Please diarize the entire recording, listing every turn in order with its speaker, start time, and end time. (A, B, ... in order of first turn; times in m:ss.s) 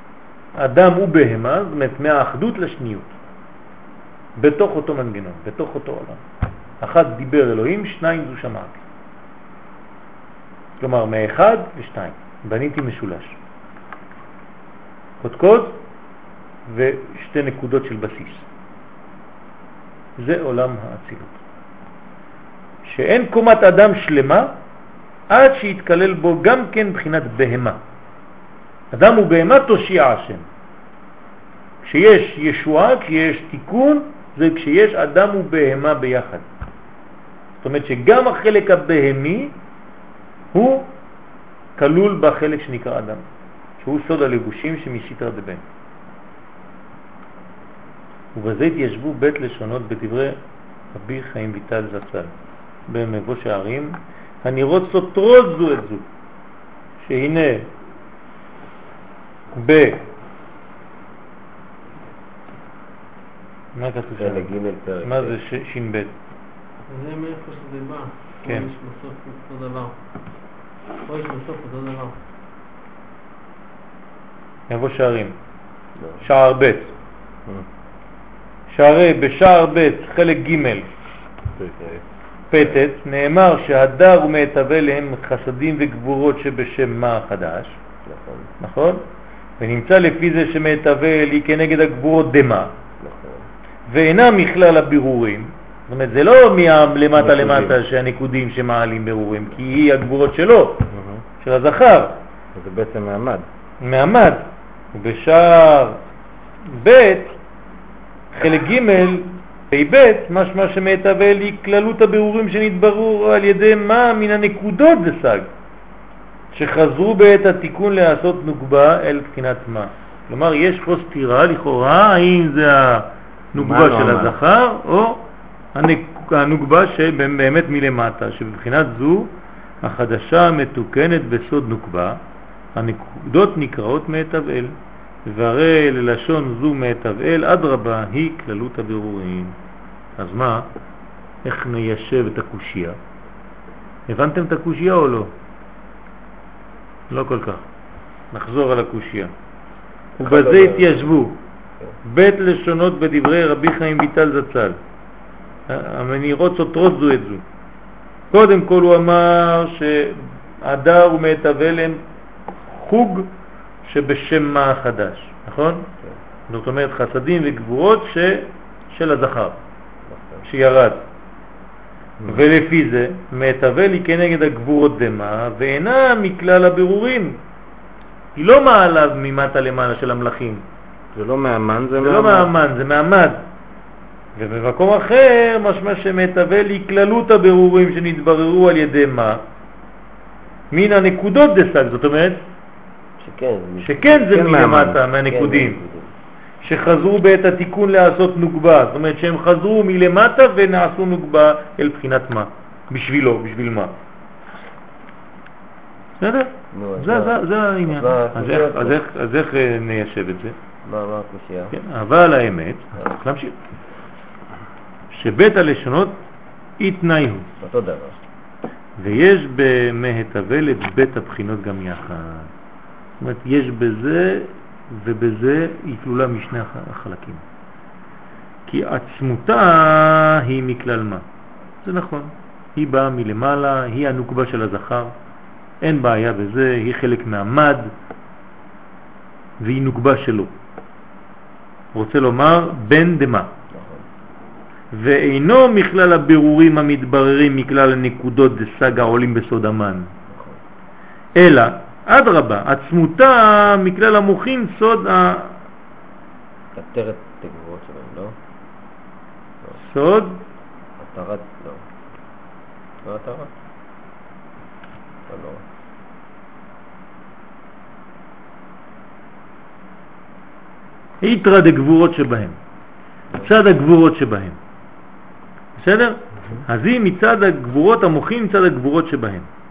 0:00.5-0:03.1 A
0:04.4-0:06.2 A
0:06.8-0:08.8 A
0:10.8-0:13.4 A
0:15.2-0:15.8 A
0:16.7-0:18.4 A
0:20.2-0:21.4 A
0:22.8-0:24.6 A
0:25.3-0:27.8 A
0:28.9-0:30.4 A
0:31.8-0:36.4 A
0:37.6-0:39.6 A
0:40.5-0:40.9 A
0:41.8-0:43.2 A
0:43.8-0:45.6 A
0:48.3-0:50.4 A
0:50.9-0:52.3 A
0:52.9-0:56.0 A
0:57.0-0:57.7 A
0:59.5-1:00.0 A
1:03.7-1:04.5 A
1:04.2-1:05.4 B
1:05.0-1:06.1 A
1:06.9-1:09.9 C
1:11.0-1:12.2 C
1:14.7-1:15.3 A
1:16.2-1:16.9 A
1:18.7-1:20.8 A
1:21.6-1:22.0 D
1:22.5-1:27.7 A
1:28.0-1:28.5 B
1:28.6-1:29.0 A
1:29.6-1:32.7 A
1:33.0-1:33.5 B
1:33.9-1:40.9 A
1:37.2-1:37.8 D
1:40.9-1:41.2 D
1:41.4-1:42.2 A
1:42.5-1:43.4 D
1:43.8-1:46.0 A
1:46.6-1:47.4 A
1:48.3-1:55.5 A
1:56.5-2:12.2 A
2:03.6-2:04.4 D
2:12.7-2:19.6 A
2:20.2-2:20.7 A
2:21.4-2:23.0 A
2:24.1-2:25.3 A
2:27.1-2:27.6 A
2:28.3-2:29.3 A
2:30.2-2:31.4 A
2:30.2-2:31.1 B
2:32.0-2:34.8 A
2:35.7-2:37.4 A
2:38.3-2:42.0 A
2:42.6-2:43.3 A
2:43.8-2:45.8 A
2:46.5-2:49.6 A
2:50.1-2:50.5 B
2:50.4-2:51.0 A
2:52.2-2:52.4 D
2:52.2-2:57.4 A
2:58.4-3:00.6 A
3:01.1-3:02.5 D
3:01.9-3:03.4 A
3:04.4-3:09.4 A
3:10.7-3:12.4 A
3:13.2-3:14.4 B
3:13.8-3:15.8 A
3:14.3-3:15.0 D
3:15.2-3:16.1 B
3:16.6-3:23.9 A
3:26.2-3:30.6 A
3:26.7-3:29.0 B
3:30.8-3:31.7 B
3:31.7-3:33.5 A
3:35.1-3:36.2 A
3:36.8-3:37.5 A
3:37.6-3:38.2 B
3:39.0-3:42.5 A
3:43.2-3:47.4 A
3:48.7-3:51.2 A
3:51.8-3:55.1 A
3:55.8-3:57.9 A
3:59.6-4:00.5 A
4:01.9-4:03.5 A
4:03.7-4:04.0 B
4:04.9-4:10.1 A
4:10.3-4:10.6 B
4:11.3-4:15.5 A
4:16.7-4:18.4 B
4:19.8-4:20.4 A
4:21.0-4:21.8 B
4:23.0-4:23.5 B
4:25.3-4:25.6 B
4:31.2-4:32.6 A
4:33.4-4:34.6 A
4:35.8-4:39.4 A